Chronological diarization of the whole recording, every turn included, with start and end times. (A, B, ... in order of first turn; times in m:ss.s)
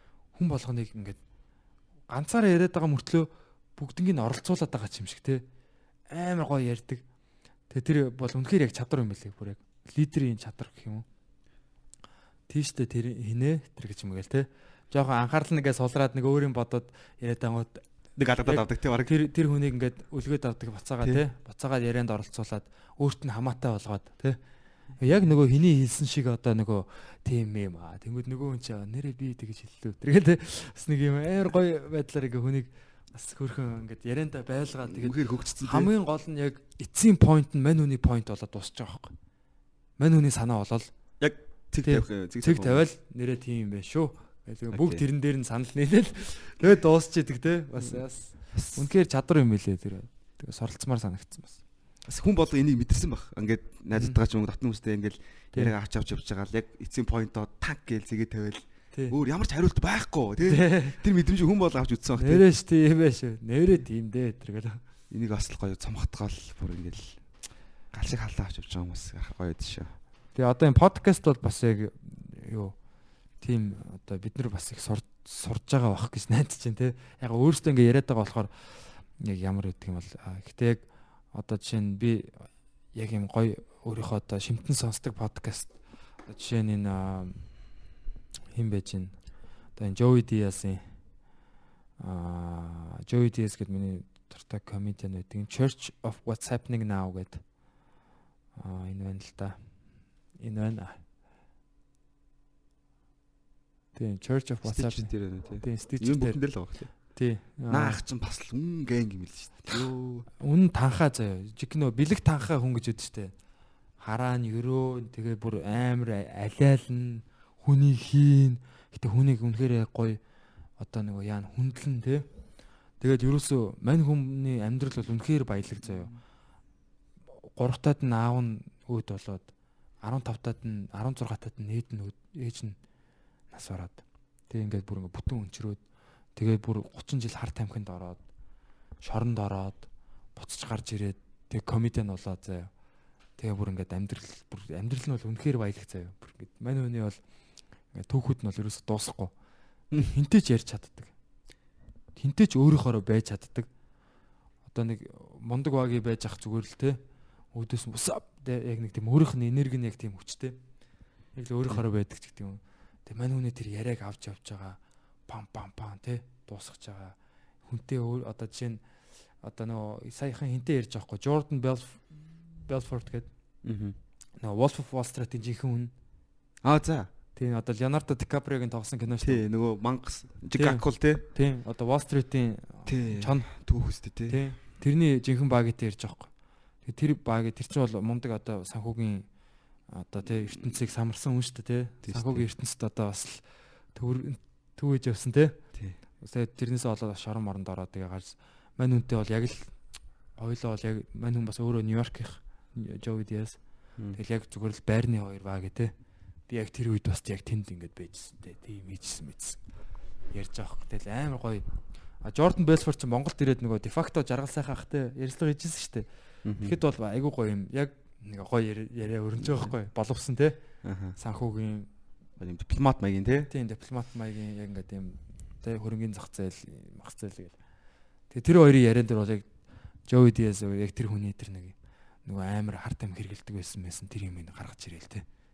0:00.4-0:01.2 A
0:02.1-0:05.4 A
0:06.1-0:07.0 A
0:07.7-0:11.0 A
0:12.5-0:24.4 A
0:18.2-0:19.2 B
0:25.0-0:39.1 A
0:34.9-0:35.9 B
0:40.0-0:40.9 A
0:41.2-0:42.8 B
0:41.8-0:51.6 A
0:44.7-0:45.0 B
0:47.8-0:48.8 B
0:52.0-1:02.4 B
1:00.4-1:01.0 A
1:02.2-1:04.8 A
1:05.1-1:07.2 B
1:07.9-1:10.0 B
1:10.3-1:12.8 A
1:13.4-1:27.4 A
1:28.5-1:29.2 A
1:29.7-1:30.9 A
1:32.0-1:37.5 A
1:38.6-1:39.8 A
1:40.3-1:41.0 A
1:43.9-1:46.4 A
1:44.6-1:47.2 B
1:47.0-1:48.0 A
1:47.7-1:50.3 B
1:50.4-1:53.3 A
1:54.0-2:00.2 A
2:00.8-2:02.3 A
2:03.0-2:06.1 A
2:07.3-2:09.5 A
2:10.0-2:12.8 A
2:13.5-2:15.8 A
2:16.3-2:18.2 A
2:19.0-2:22.7 A
2:23.4-2:27.2 A
2:27.9-2:29.3 A
2:29.9-2:31.1 A
2:32.2-2:33.7 A
2:34.7-2:37.0 A
2:37.5-2:40.6 A
2:41.4-2:48.8 A
2:49.4-2:53.3 A
2:53.6-2:54.0 B
2:54.4-2:55.9 A
2:56.6-2:57.1 B
2:57.4-2:59.4 A
2:59.2-3:01.2 B
3:00.6-3:03.5 A
3:02.8-3:04.4 B
3:04.3-3:06.3 A
3:06.8-3:09.3 A
3:09.9-3:15.6 A
3:10.3-3:10.7 B
3:12.0-3:12.5 B
3:16.2-3:19.8 A
3:20.4-3:23.6 A
3:24.1-3:25.9 A
3:26.5-3:29.6 A
3:30.3-3:31.7 A
3:32.2-3:36.0 A
3:36.4-3:36.8 B
3:36.6-3:40.6 A
3:39.4-3:39.7 B
3:40.8-3:41.2 B
3:41.2-3:41.9 A
3:42.4-3:43.5 B
3:43.5-3:47.6 A
3:48.3-3:49.5 A
3:50.1-3:55.2 A